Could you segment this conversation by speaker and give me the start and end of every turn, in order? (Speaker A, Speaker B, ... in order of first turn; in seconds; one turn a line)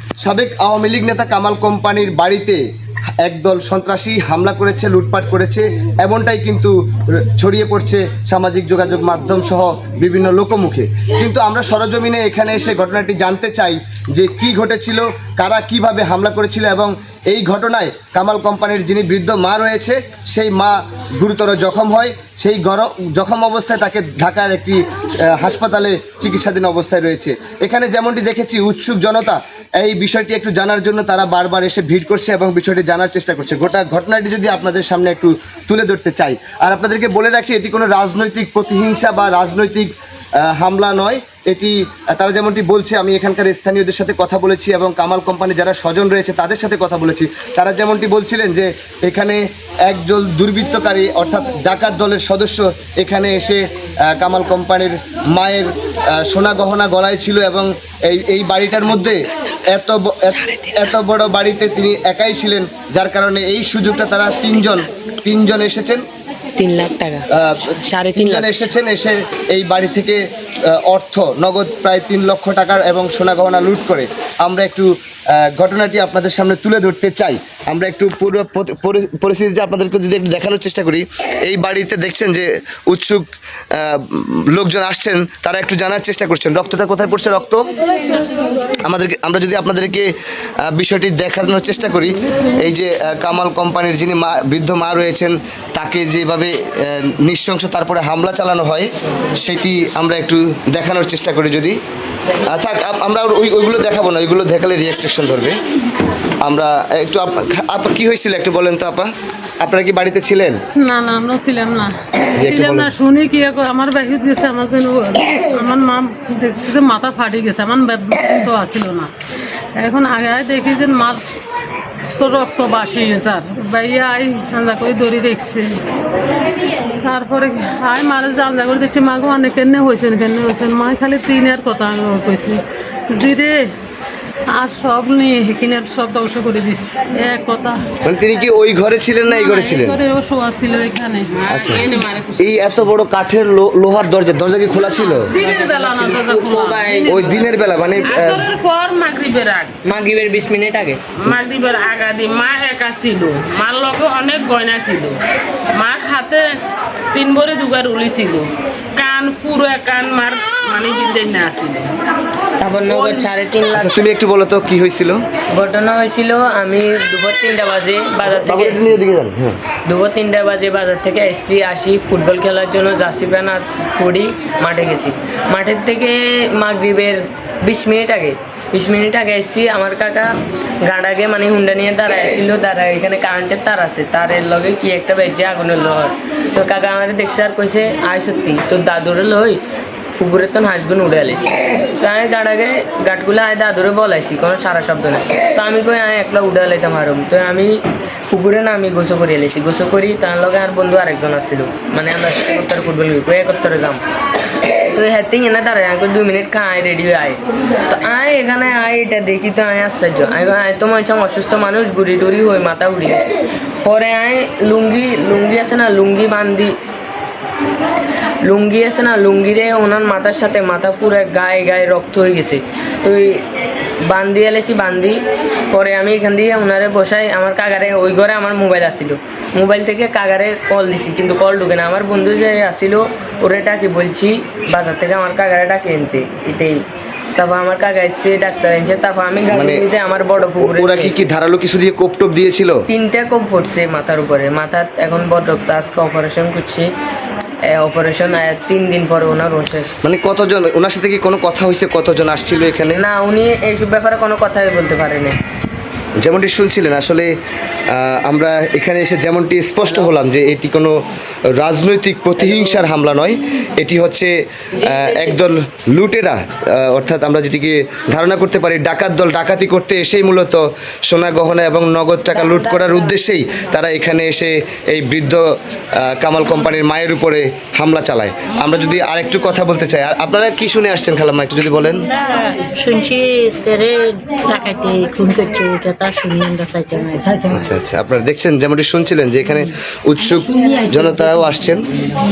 Speaker A: 0.2-2.6
Speaker A: 3.2-39.9
Speaker A: 40.4-66.0
Speaker B: 66.6-67.3
Speaker A: 67.3-87.7
Speaker B: 67.8-68.8
Speaker A: 88.8-90.1
Speaker A: 90.6-101.8
Speaker A: 102.4-105.6
Speaker A: 106.4-110.6
Speaker C: 110.8-119.1
Speaker A: 112.3-112.9
Speaker C: 119.8-121.2
Speaker C: 122.2-125.8
Speaker C: 127.0-133.7
Speaker C: 134.5-137.8
Speaker A: 138.0-140.0
Speaker C: 139.2-141.4
Speaker D: 141.4-142.7
Speaker A: 141.5-145.3
Speaker C: 145.3-148.2
Speaker B: 145.8-147.5
Speaker A: 147.1-148.4
Speaker D: 148.1-149.8
Speaker B: 149.8-151.0
Speaker D: 151.2-155.2
Speaker D: 155.8-156.5
Speaker D: 157.1-161.9
Speaker B: 162.6-164.0
Speaker D: 162.9-163.3
Speaker A: 163.7-165.2
Speaker B: 165.5-169.0
Speaker A: 168.2-169.6
Speaker B: 169.9-180.3
Speaker B: 180.9-189.6
Speaker B: 190.2-197.7
Speaker B: 198.3-204.0
Speaker B: 204.9-213.3
Speaker B: 213.8-216.8
Speaker B: 218.4-223.4
Speaker B: 224.1-236.8
Speaker B: 237.4-241.3
Speaker A: 239.5-239.8
Speaker A: 240.6-242.8
Speaker B: 242.9-246.9
Speaker B: 247.7-250.0
Speaker A: 250.0-253.0
Speaker B: 253.0-255.4
Speaker A: 256.2-257.3
Speaker A: 257.9-260.9
Speaker A: 261.6-275.5
Speaker B: 264.8-265.4
Speaker A: 276.0-282.1
Speaker E: 282.1-287.6
Speaker A: 287.5-291.8